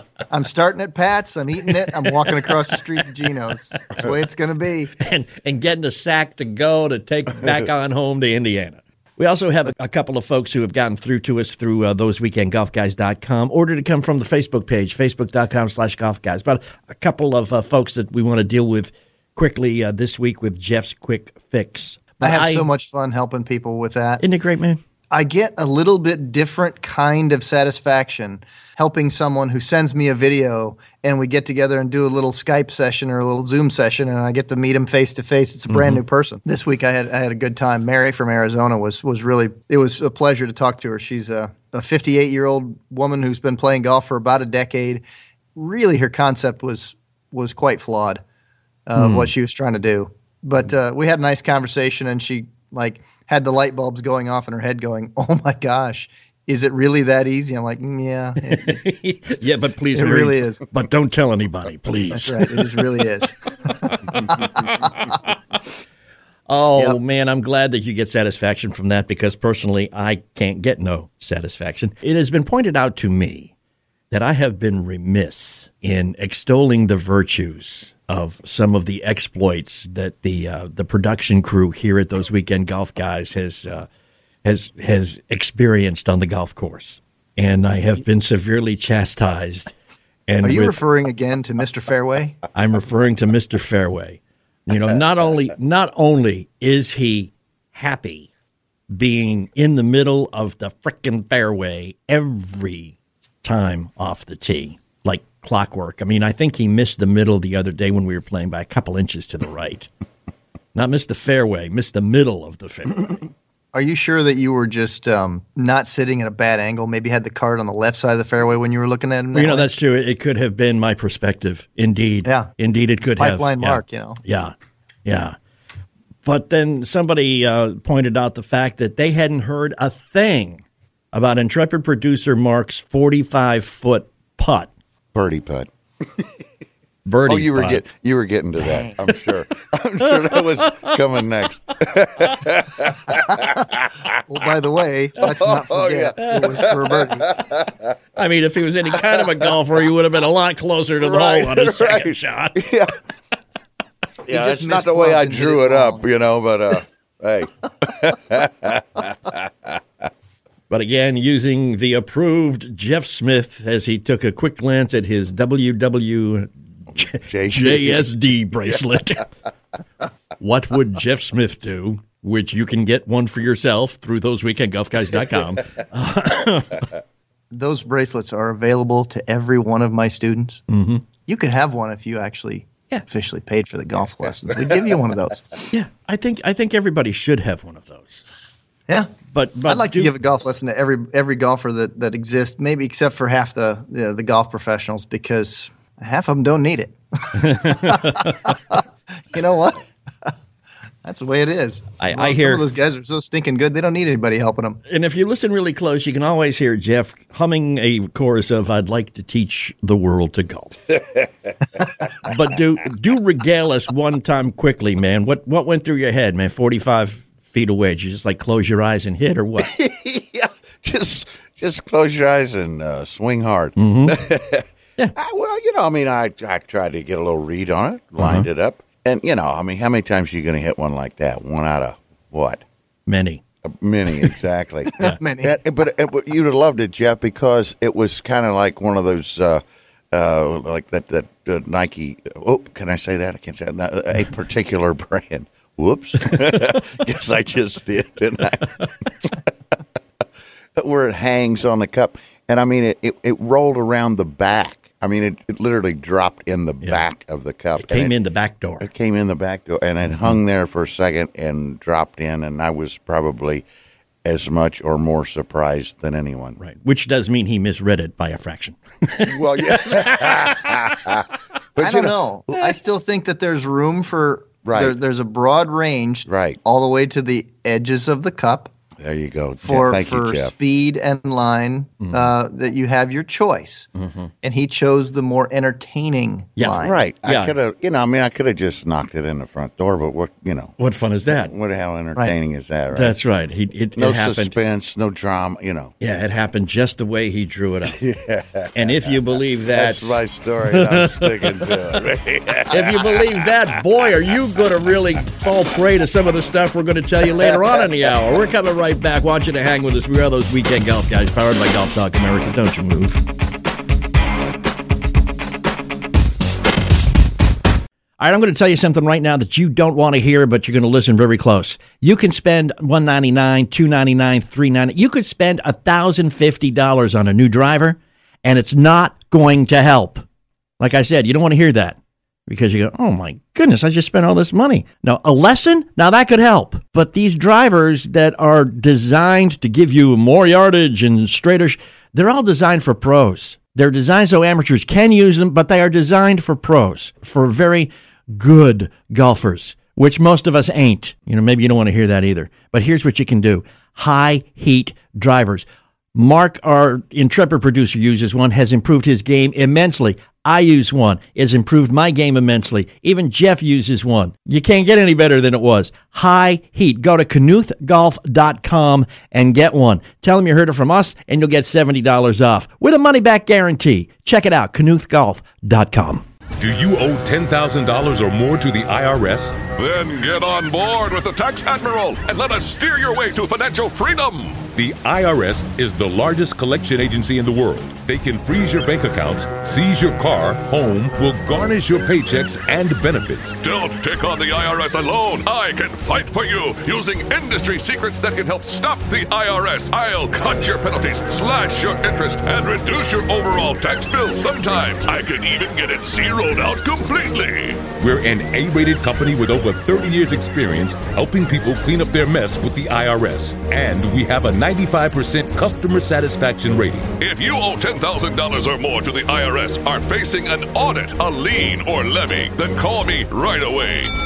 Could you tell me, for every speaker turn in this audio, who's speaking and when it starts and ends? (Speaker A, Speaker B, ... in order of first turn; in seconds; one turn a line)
Speaker A: 0.3-4.9
Speaker B: 5.0-22.7
Speaker A: 22.2-24.2
Speaker B: 24.2-24.8
Speaker A: 25.1-45.0
Speaker B: 35.7-36.0
Speaker A: 45.6-48.2
Speaker A: 48.9-58.7
Speaker B: 49.0-49.3
Speaker B: 58.4-62.9
Speaker A: 60.0-60.6
Speaker A: 62.1-64.5
Speaker B: 64.6-65.1
Speaker B: 66.5-73.5
Speaker B: 74.1-83.9
Speaker B: 84.4-89.7
Speaker B: 90.3-90.8
Speaker A: 90.4-92.4
Speaker B: 92.5-98.3
Speaker B: 98.9-109.9
Speaker B: 110.8-113.2
Speaker A: 113.7-119.7
Speaker B: 119.3-124.5
Speaker A: 122.2-122.5
Speaker A: 123.2-124.2
Speaker B: 125.0-125.4
Speaker B: 126.2-134.7
Speaker C: 135.1-136.3
Speaker B: 137.1-137.8
Speaker C: 137.3-143.8
Speaker A: 138.7-139.0
Speaker B: 140.1-140.9
Speaker A: 144.3-147.3
Speaker C: 145.4-147.9
Speaker B: 146.2-146.5
Speaker B: 148.2-152.6
Speaker C: 149.2-149.5
Speaker C: 151.0-152.9
Speaker C: 154.3-159.7
Speaker A: 154.3-156.0
Speaker B: 160.7-169.3
Speaker C: 167.1-168.1
Speaker B: 170.4-176.9
Speaker A: 177.5-180.6
Speaker B: 180.7-181.0
Speaker A: 181.2-185.5
Speaker B: 185.7-188.2
Speaker B: 189.3-190.1
Speaker A: 189.7-200.3
Speaker B: 197.3-198.4
Speaker A: 201.1-204.8
Speaker B: 202.0-202.6
Speaker B: 204.9-210.8
Speaker B: 212.3-219.7
Speaker C: 219.7-224.7
Speaker B: 223.8-224.2
Speaker C: 225.2-232.6
Speaker B: 228.2-228.5
Speaker B: 233.1-233.4
Speaker C: 233.7-248.9
Speaker A: 235.0-235.6
Speaker C: 250.8-258.2
Speaker B: 257.8-258.9
Speaker C: 258.8-263.7
Speaker C: 264.2-266.6
Speaker B: 266.6-270.7
Speaker C: 269.3-272.1
Speaker A: 271.8-278.7
Speaker C: 274.6-275.0
Speaker C: 276.3-276.6
Speaker C: 279.0-280.5
Speaker A: 279.6-283.9
Speaker B: 282.0-282.3
Speaker B: 284.0-284.3
Speaker A: 284.4-287.0
Speaker B: 286.6-287.5
Speaker C: 286.8-290.8
Speaker B: 290.8-291.5
Speaker C: 291.3-293.2
Speaker B: 292.9-294.6
Speaker C: 294.0-295.9
Speaker B: 296.0-298.0
Speaker C: 297.9-303.5
Speaker B: 298.8-300.2
Speaker B: 300.7-301.7
Speaker B: 302.7-313.2
Speaker C: 307.3-308.1
Speaker B: 318.2-330.2
Speaker B: 330.8-376.2
Speaker D: 376.6-379.6
Speaker E: 379.8-384.6
Speaker D: 384.8-393.6
Speaker E: 393.6-407.8
Speaker D: 408.0-417.1
Speaker E: 417.2-424.1